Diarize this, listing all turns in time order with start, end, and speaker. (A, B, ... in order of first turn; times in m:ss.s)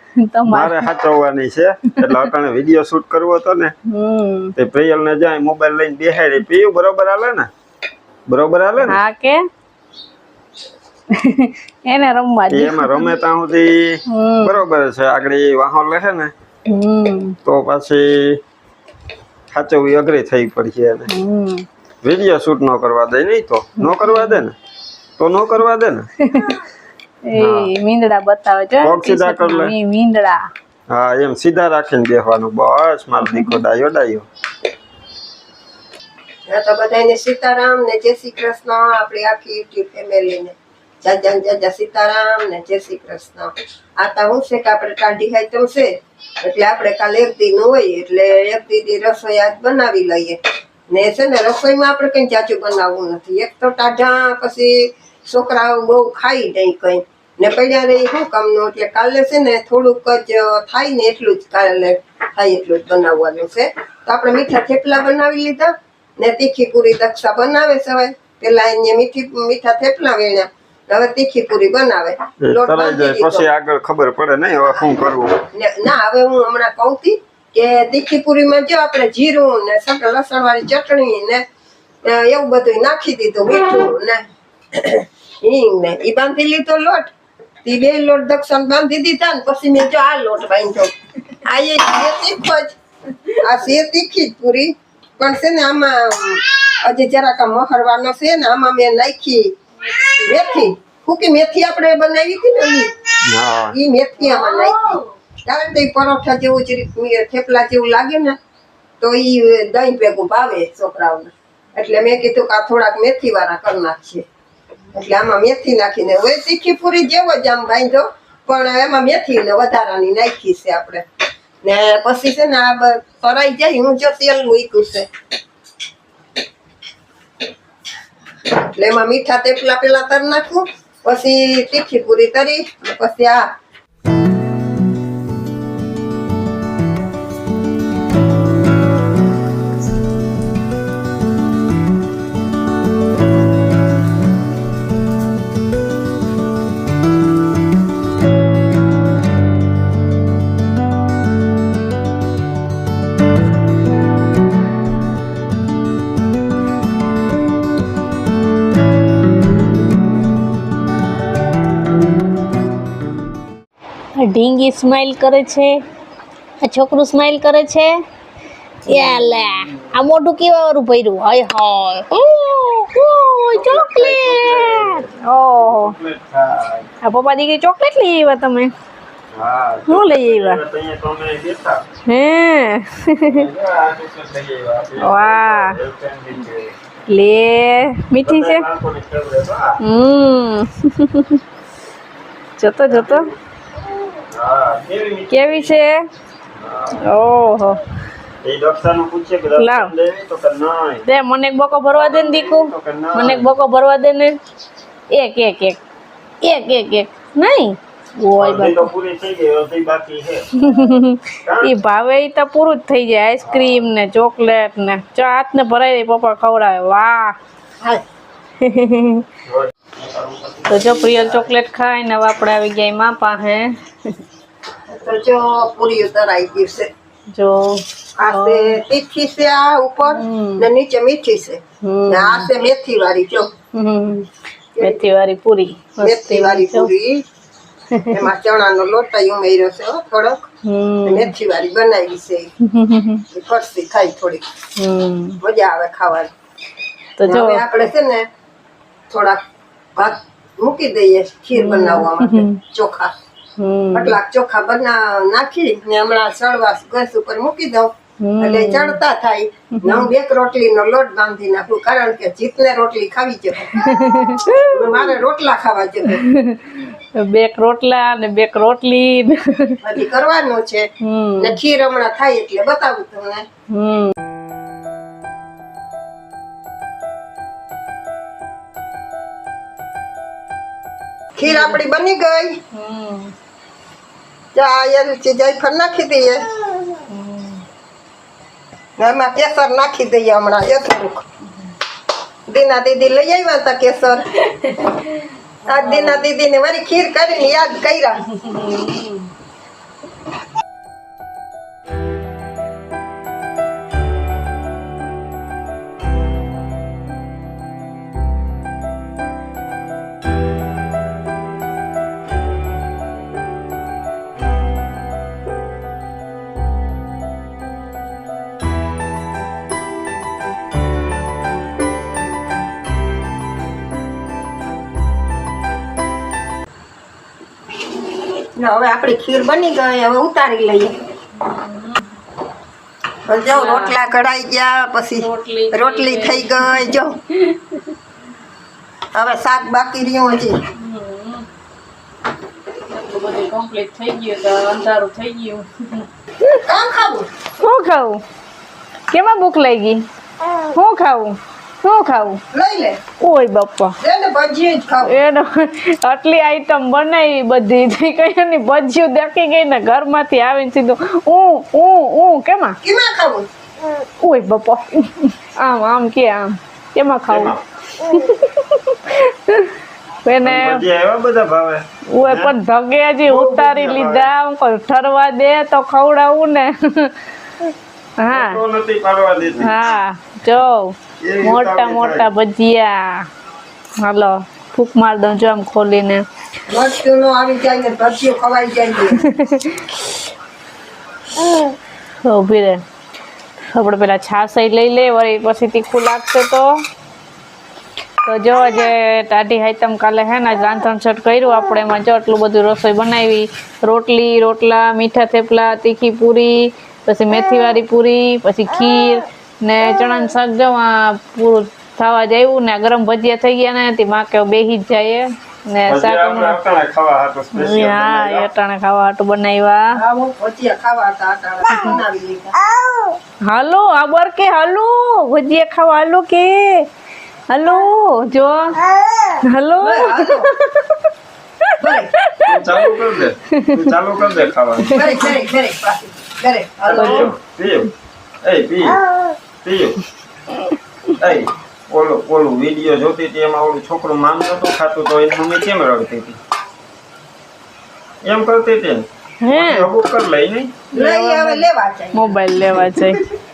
0:00.2-0:00.9 A
0:00.5-0:03.7 B
0:01.9-0:02.2 A
0:03.9-0:04.5 A
0:04.6-0:07.5 B
0:08.3-0:09.0 B
0:08.9-0:09.5 A
0:11.1-0:13.2 A
0:12.5-0:16.3 B
0:14.1-0:14.6 A
0:16.7-0:17.4 A
0:17.4-0:18.4 B
0:19.5-0:21.1 B
0:21.1-0:21.7 A
0:22.0-0:24.6 B
0:23.8-0:24.4 A
0:25.2-0:26.1 B
0:26.2-0:26.6 A
0:27.2-0:30.4 A
0:27.4-0:27.7 B
0:28.8-0:29.7 B
0:30.9-0:34.3 B
0:33.2-0:33.6 A
0:36.5-0:45.9 C
0:46.4-0:50.4 C
0:50.9-1:13.5 C
1:12.4-1:15.4 B
1:15.5-1:21.4 C
1:22.0-1:24.2 C
1:24.8-1:27.1 C
1:27.6-1:32.8 C
1:33.4-1:39.5 C
1:39.8-1:40.7 A
1:40.2-1:42.9 C
1:43.3-1:43.8 B
1:43.7-1:48.4 C
1:44.2-1:45.0 A
1:49.0-1:54.2 C
1:54.9-2:01.0 C
2:01.6-2:05.1 C
2:08.6-2:13.5 C
2:44.2-2:45.7 A
2:46.6-2:47.9 A
2:48.9-2:56.0 A
2:48.9-2:49.7 B
2:53.5-2:56.9 B
2:57.0-2:58.7 A
2:59.4-3:01.8 B
2:59.9-3:00.6 A
3:02.1-3:03.5 A
3:03.2-3:06.8 B
3:05.0-3:05.8 A
3:07.1-3:08.6 A
3:08.2-3:09.8 B
3:09.8-3:11.4 A
3:12.6-3:13.3 A
3:12.9-3:13.4 B
3:14.3-3:15.8 B
3:15.3-3:16.0 A
3:16.6-3:17.0 B
3:17.0-3:17.8 A
3:18.4-3:21.0 B
3:19.6-3:19.9 A
3:21.1-3:24.4 A
3:21.9-3:23.5 B
3:25.1-3:25.8 A
3:26.4-3:28.9 A
3:28.4-3:30.6 B
3:30.6-3:37.4 A
3:31.4-3:31.7 B
3:33.4-3:33.9 B
3:38.6-3:39.3 A
3:39.5-3:41.5 B
3:40.7-3:44.2 A
3:44.9-3:46.9 C
3:47.3-3:48.8 A
3:48.2-3:53.5 C
3:50.1-3:50.7 A
3:51.8-3:52.5 A
3:53.7-3:54.3 A
3:54.8-3:55.1 C
3:54.8-3:56.9 A
3:56.0-3:57.2 C
3:57.9-3:58.3 A
3:58.1-4:00.4 C
4:00.6-4:01.3 A
4:01.0-4:02.5 C
4:02.6-4:03.2 A
4:03.3-4:04.4 C
4:04.8-4:05.4 A
4:05.4-4:06.3 C
4:07.2-4:07.6 A
4:07.2-4:08.3 C
4:09.1-4:09.4 C
4:10.0-4:13.1 C
4:11.6-4:12.6 A
4:13.6-4:14.2 A
4:13.9-4:26.2 C
4:18.2-4:19.0 A
4:19.8-4:20.1 A
4:23.7-4:25.1 A
4:26.1-4:29.8 A
4:29.8-4:30.9 C
4:31.0-4:31.6 A
4:31.4-4:33.5 C
4:33.7-4:34.1 A
4:41.4-4:42.6 C
4:41.4-4:41.8 A
4:42.7-4:43.3 A
4:44.5-4:46.5 C
4:47.1-4:47.6 A
4:49.0-4:51.2 C
4:52.5-4:54.3 C
4:54.6-4:56.2 A
4:55.7-4:58.2 C
4:58.3-4:59.3 A
5:28.6-5:31.0 C
5:31.4-5:32.1 A
5:33.3-5:37.2 C
5:33.3-5:34.0 A
5:35.2-5:38.0 A
5:39.1-5:40.6 C
5:40.8-5:41.5 A
5:42.9-5:46.1 A
5:46.6-5:47.3 C
5:47.6-5:48.2 A
5:49.1-5:50.0 A
5:50.6-5:52.4 A
5:52.5-5:53.0 C
5:53.2-5:54.0 A
5:54.0-5:55.2 C
5:55.0-6:02.8 A
6:02.8-6:03.5 C
6:04.0-6:09.8 A
6:07.3-6:07.6 B
6:10.3-6:10.8 A
6:10.4-6:12.5 B
6:12.1-6:17.1 A
6:13.2-6:14.3 B
6:18.2-6:18.6 A
6:18.3-6:19.8 B
6:19.6-6:23.3 A
6:21.2-6:22.3 B
6:24.0-6:26.2 A
6:26.7-6:29.2 C
6:29.2-6:30.1 A
6:32.2-6:32.8 A
6:33.7-6:36.7 A
6:38.2-6:56.6 A
6:55.9-6:58.5 B
6:57.5-7:00.0 A
6:59.9-7:02.6 C
7:01.7-7:02.0 A
7:03.4-7:06.9 A
7:07.5-7:08.8 A
7:09.4-7:11.1 A
7:09.8-7:10.5 C
7:11.6-7:12.9 A
7:11.8-7:12.1 C
7:12.4-7:15.1 B
7:13.5-7:14.0 A
7:14.8-7:15.4 A
7:14.9-7:17.3 C
7:16.9-7:17.9 B
7:17.0-7:17.3 A
7:18.4-7:19.0 B
7:19.6-7:20.0 B
7:21.2-7:26.4 B
7:28.2-7:30.8 B
7:29.4-7:29.9 A
7:30.9-7:33.2 A
7:30.9-7:33.2 C